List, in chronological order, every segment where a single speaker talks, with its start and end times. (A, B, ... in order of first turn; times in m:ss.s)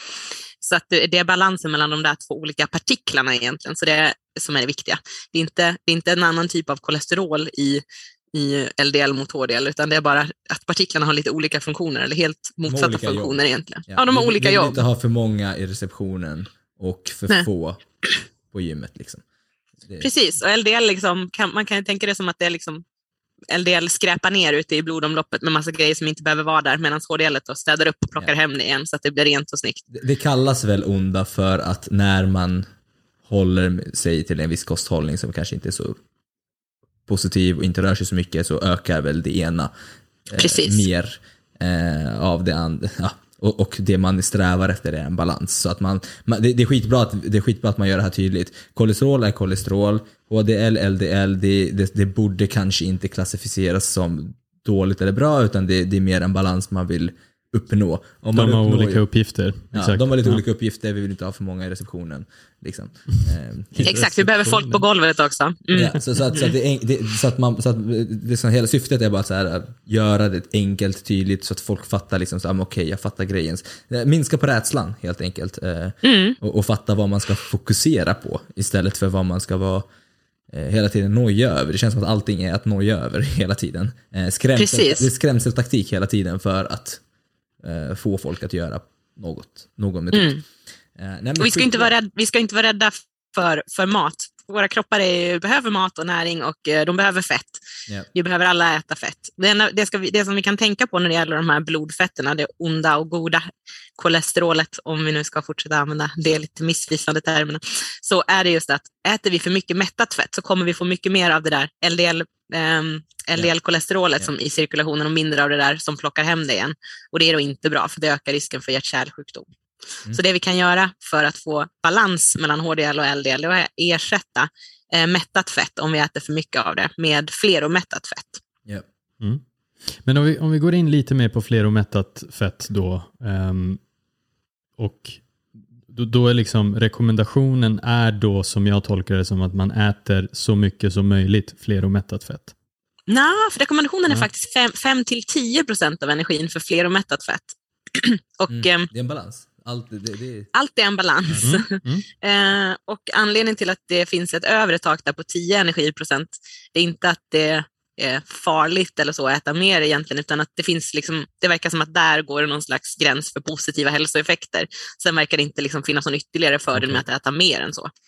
0:00.6-0:14.8 A
0:12.7-0:17.8 B
0:18.5-0:19.2 B
0:20.0-0:22.8 A
0:23.5-0:29.8 A
0:29.9-0:32.7 B
0:33.2-0:36.0 B
0:37.1-0:39.7 B
0:40.3-0:59.1 B
0:40.4-0:40.9 A
0:58.4-1:00.4 C
0:59.7-1:03.8 B
1:03.7-1:06.5 A
1:03.8-1:04.8 C
1:05.7-1:19.9 B
1:16.0-1:16.4 A
1:20.5-1:27.0 B
1:24.6-1:25.1 A
1:27.6-1:30.4 B
1:30.1-1:30.4 A
1:31.0-1:31.9 B
1:31.4-1:59.5 A
2:00.1-2:08.4 A
2:09.2-2:13.8 C
2:14.8-2:15.2 C
2:15.9-2:22.5 C
2:23.1-2:28.9 A
2:28.5-2:30.5 B
2:30.5-2:47.9 A
2:31.4-2:32.0 C